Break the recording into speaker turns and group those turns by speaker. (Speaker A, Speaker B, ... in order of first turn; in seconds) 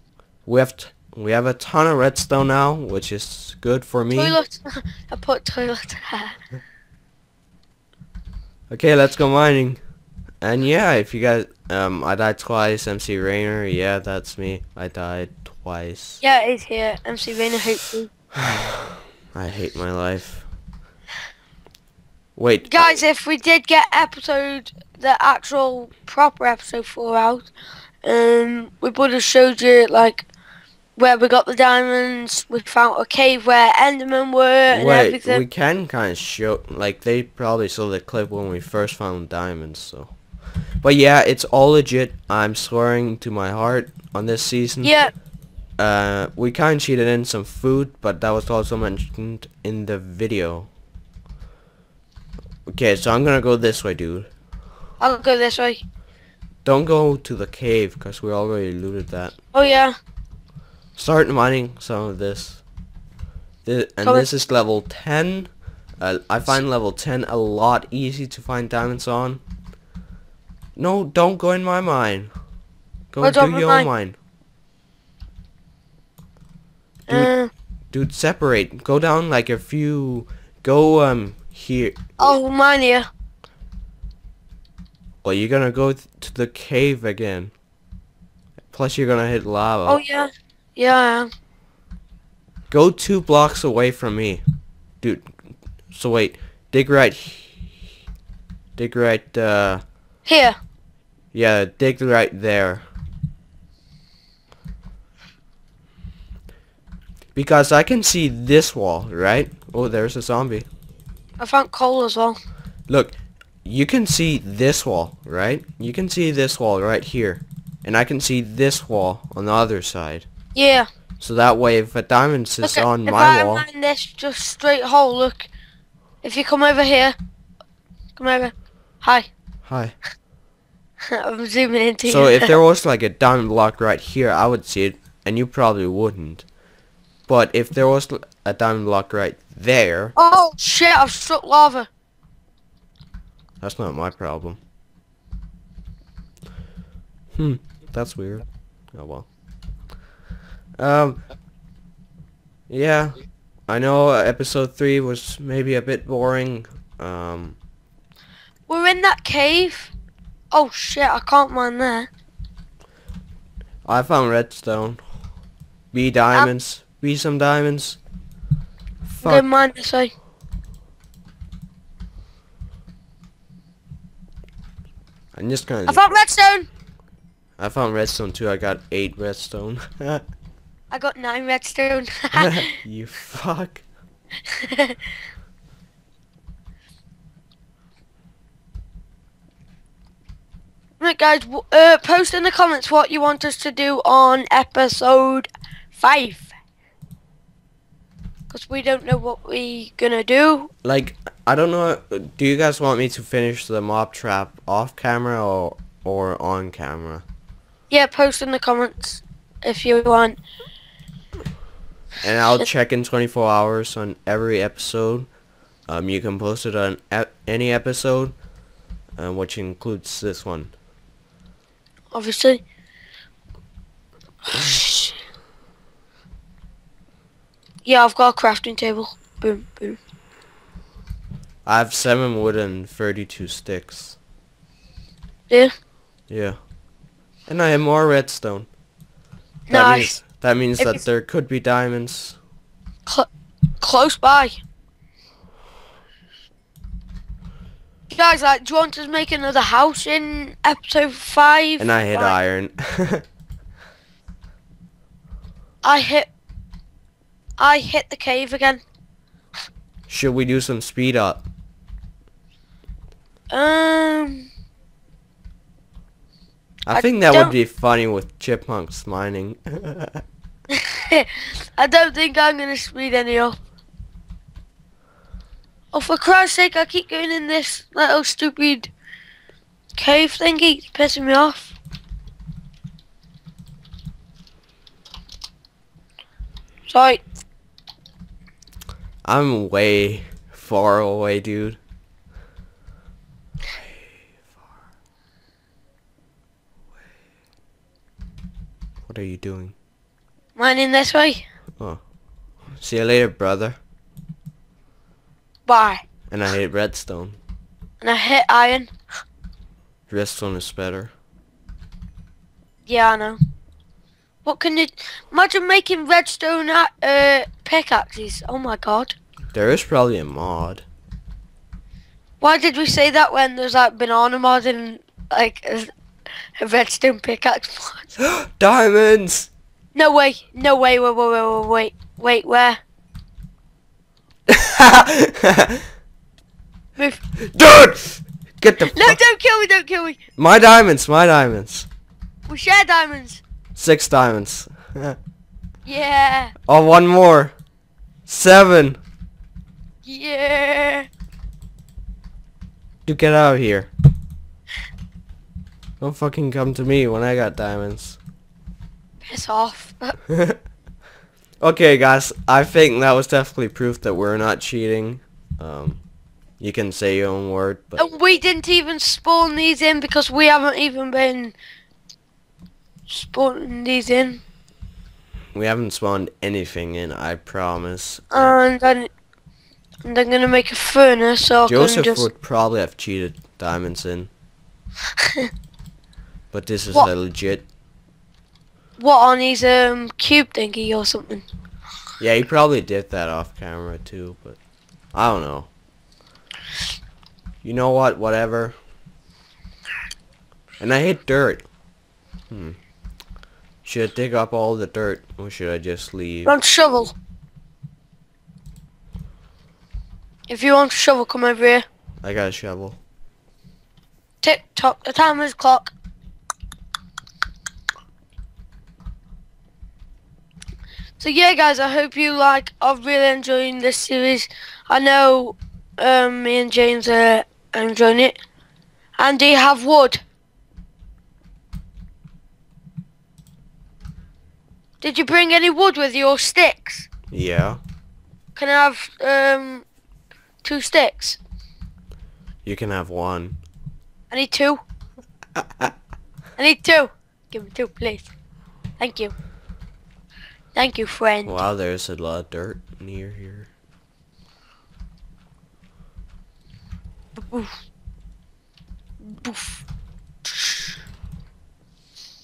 Speaker A: 0.5-4.4, 8.7-9.8, 10.4-16.2, 18.4-20.5, 22.4-22.9, 34.7-40.1, 40.8-44.9, 45.8-50.7, 52.7-54.3, 56.6-59.3, 61.0-62.6, 63.6-69.4, 70.8-72.3, 73.1-74.2, 77.9-82.3, 85.2-87.5, 88.7-90.0, 92.7-94.4, 95.0-95.3, 95.9-97.9, 98.8-99.8, 101.3-102.8, 107.3-110.7, 112.9-120.3, 121.2-123.7, 129.7-129.9, 132.1-136.4, 137.3-140.1, 143.6-144.6, 147.3-149.3, 150.8-151.2, 152.7-153.2, 153.7-157.6, 163.8-165.0, 165.9-168.0, 169.1-169.4, 175.3-176.0, 177.6-180.2, 182.3-183.8, 200.8-207.2, 212.2-215.3, 215.9-218.3, 219.2-220.7, 231.7-234.2, 236.3-236.6, 237.5-238.7, 239.7-242.4, 251.8-253.2, 260.1-261.4, 266.9-270.2, 289.2-291.8, 293.7-294.1, 299.1-299.7, 302.8-303.8, 306.3-307.4, 310.1-311.1, 319.5-320.8, 328.2-329.5, 334.5-335.8, 337.4-339.2, 340.4-341.9, 343.8-345.2, 346.7-347.5, 348.3-349.0, 353.1-353.9, 356.0-358.2, 360.3-360.6, 361.6-366.0, 366.6-368.0, 375.5-378.6, 381.7-384.3, 386.5-387.6, 392.2-394.6, 395.1-395.7, 397.6-398.8, 400.8-401.6, 402.5-402.8, 403.8-406.5, 412.2-413.0, 437.3-437.8, 442.6-443.6, 451.4-453.7
Speaker B: 4.1-6.4, 16.2-18.1, 22.6-27.5, 28.0-30.3, 30.9-35.4, 44.8-45.1, 55.0-55.8, 59.5-59.9, 64.0-64.3, 73.2-73.9, 77.1-77.5, 82.2-83.1, 89.8-91.3, 100.2-100.5, 111.4-112.4, 120.5-120.9, 122.6-125.5, 126.2-127.2, 128.2-129.3, 131.1-132.5, 140.2-141.9, 158.7-159.9, 160.5-162.1, 169.2-170.1, 175.9-176.7, 180.9-182.7, 184.5-185.0, 191.0-196.5, 198.5-200.7, 207.9-210.4, 222.1-222.6, 224.5-225.2, 227.8-230.0, 239.7-240.2, 243.8-244.6, 248.1-252.4, 255.8-256.3, 257.6-258.8, 263.5-264.5, 266.9-267.5, 270.7-273.6, 275.9-278.9, 280.0-281.7, 286.9-287.2, 300.6-301.4, 305.7-306.0, 308.0-308.9, 312.9-313.4, 314.4-319.2, 322.4-325.9, 326.6-328.1, 329.9-332.8, 338.9-340.2, 342.5-343.4, 345.9-346.5, 350.0-351.1, 359.2-360.1, 368.0-371.5, 373.1-374.4, 378.3-379.1, 380.0-382.3, 385.2-385.5, 389.0-391.4, 406.4-407.1, 410.5-411.8, 414.4-415.9, 421.2-428.4, 429.2-430.2, 435.0-437.1, 438.6-439.8, 440.6-441.4, 444.3-444.8, 446.6-448.3, 449.0-449.3, 450.7-451.6, 457.5-457.8, 459.2-459.8, 460.4-460.9